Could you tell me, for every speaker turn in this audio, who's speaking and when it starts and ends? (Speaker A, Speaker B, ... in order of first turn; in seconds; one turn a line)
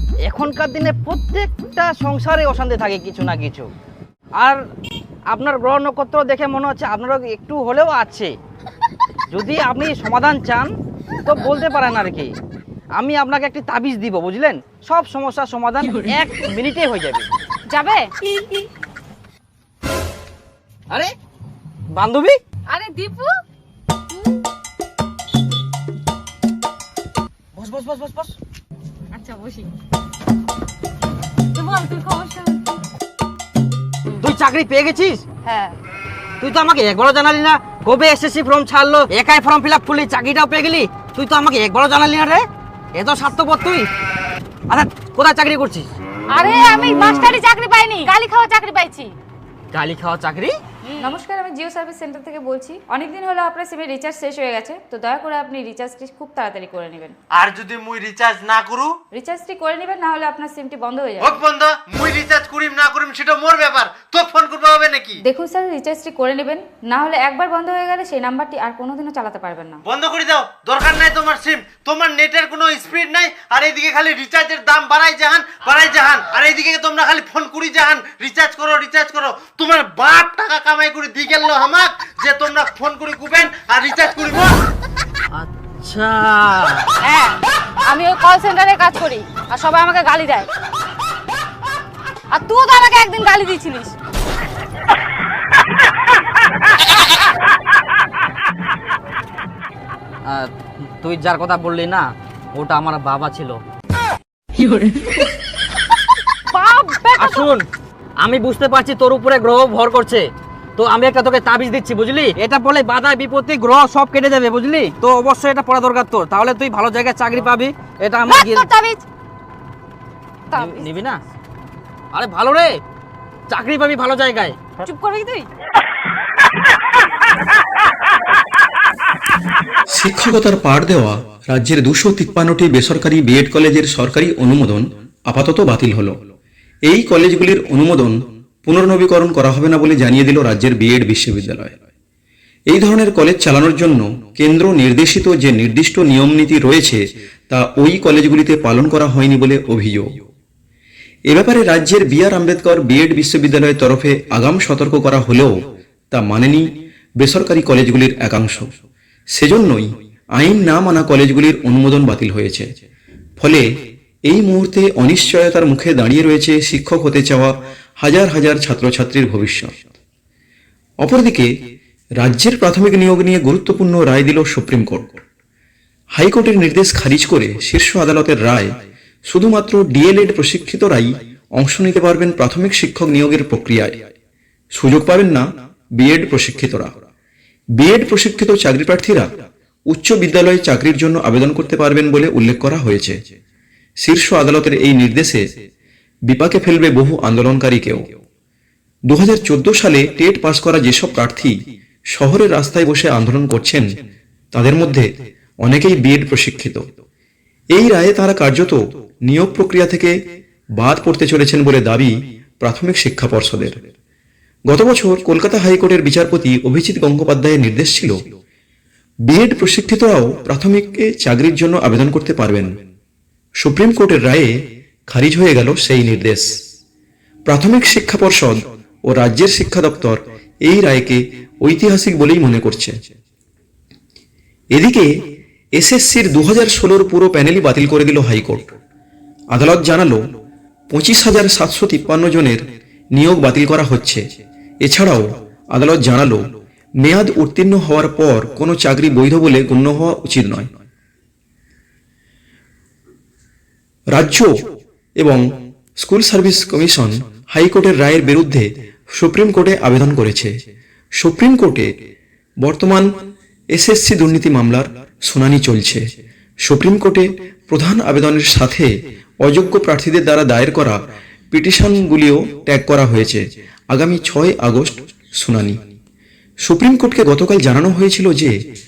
Speaker A: 0.2-3.7
Speaker A: 5.3-8.3
Speaker A: 9.3-10.7
Speaker A: 11.2-12.3
Speaker A: 13.0-17.3
Speaker B: 17.7-18.6
Speaker A: 21.9-22.4
Speaker B: 22.7-23.3
Speaker A: 27.6-28.3
Speaker B: 29.1-29.7
Speaker B: 31.6-32.7
Speaker A: 34.2-35.3
Speaker B: 35.5-35.8
Speaker A: 36.4-43.9
Speaker A: 44.7-45.9
Speaker B: 46.4-49.1
Speaker A: 49.7-50.5
Speaker C: 51.0-57.2
Speaker D: 57.3-59.0
Speaker C: 59.1-61.4
Speaker D: 61.2-65.2
Speaker C: 65.2-69.8
Speaker D: 69.9-84.5
Speaker A: 85.3-86.9
Speaker B: 87.1-87.4
Speaker B: 87.9-90.5
Speaker B: 92.3-93.9
Speaker A: 100.3-103.6
Speaker B: 106.5-107.5
Speaker A: 107.2-107.7
Speaker A: 108.2-118.7
Speaker B: 118.3-119.0
Speaker B: 120.5-120.9
Speaker A: 120.5-121.2
Speaker A: 122.1-122.7
Speaker A: 123.5-124.7
Speaker B: 124.8-125.5
Speaker E: 129.9-136.2
Speaker E: 136.9-141.8
Speaker E: 142.7-150.1
Speaker E: 151.3-155.5
Speaker E: 156.1-156.7
Speaker E: 157.2-158.7
Speaker E: 159.4-162.7
Speaker E: 163.4-163.7
Speaker E: 164.3-169.8
Speaker E: 171.0-171.5
Speaker E: 172.2-175.2
Speaker E: 176.2-178.7
Speaker E: 179.3-184.0
Speaker E: 184.8-186.9
Speaker E: 187.8-189.3
Speaker E: 189.9-193.2
Speaker E: 194.0-195.4
Speaker E: 196.3-198.1
Speaker E: 199.1-201.6
Speaker E: 202.1-203.9
Speaker E: 204.5-205.1
Speaker E: 205.6-206.8
Speaker E: 207.7-210.2
Speaker E: 210.8-213.8
Speaker E: 214.7-218.2
Speaker E: 219.3-222.7
Speaker E: 223.6-226.5
Speaker E: 227.5-233.0
Speaker E: 234.7-235.1
Speaker E: 235.8-238.7
Speaker E: 239.5-240.2
Speaker E: 240.9-242.6
Speaker E: 243.2-244.2
Speaker E: 244.8-246.4
Speaker E: 247.0-250.7
Speaker E: 254.1-254.5
Speaker E: 255.2-255.5
Speaker E: 256.0-260.5
Speaker E: 261.2-261.9
Speaker E: 262.6-263.1
Speaker E: 263.7-266.0
Speaker E: 266.6-268.9
Speaker E: 269.4-271.0
Speaker E: 271.5-275.9
Speaker E: 276.7-278.5